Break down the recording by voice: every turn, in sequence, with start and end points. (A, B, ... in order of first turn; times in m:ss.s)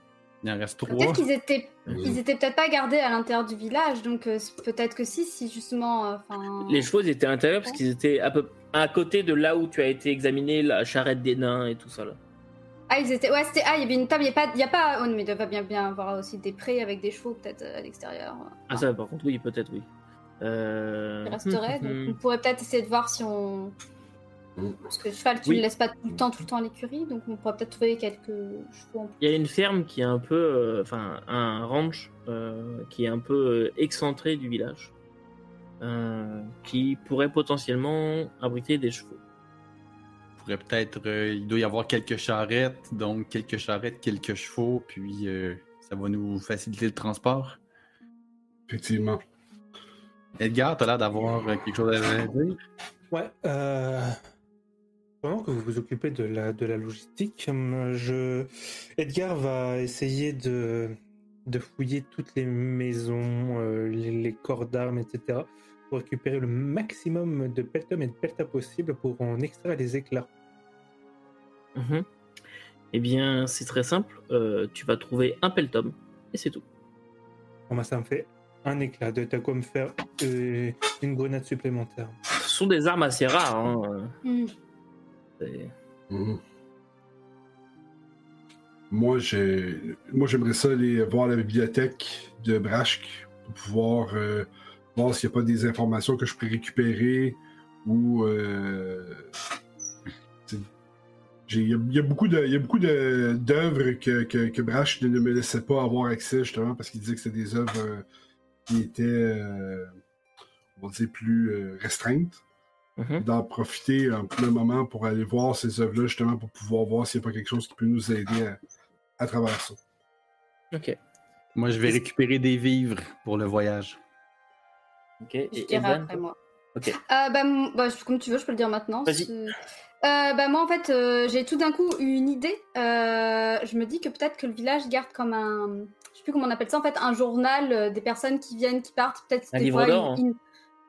0:00.4-0:01.3 A
0:00.9-0:06.9 B
0:01.9-0:02.2 C
0:06.6-0:12.2 D
0:12.9-0:18.8 B
0:18.7-0:19.9 D
0:20.4-0:22.2 D
0:21.2-0:23.7 B
0:24.6-0:24.9 C
0:24.9-0:29.2 B
0:29.2-0:34.9 D
0:35.8-0:39.2 D
0:40.4-0:47.6 A
0:48.7-0:49.2 C
0:50.4-0:52.6 A
0:53.1-0:54.2 E
0:55.2-1:10.3 E
1:11.7-1:12.0 D
1:12.9-1:16.6 D
1:17.7-1:22.2 E
1:22.3-1:24.2 D
1:24.2-1:24.5 B
1:25.4-1:25.7 D
1:26.1-1:26.4 C
1:28.9-1:39.3 C
1:41.5-1:48.0 C
1:48.7-1:49.9 C
1:50.8-1:52.4 C
1:53.0-1:53.2 D
1:53.2-1:58.6 C
1:59.2-1:59.8 C
2:00.7-2:01.0 D
2:01.5-2:04.0 A
2:05.2-2:06.2 D
2:05.5-2:06.4 B
2:07.0-2:20.4 B
2:19.5-2:20.2 D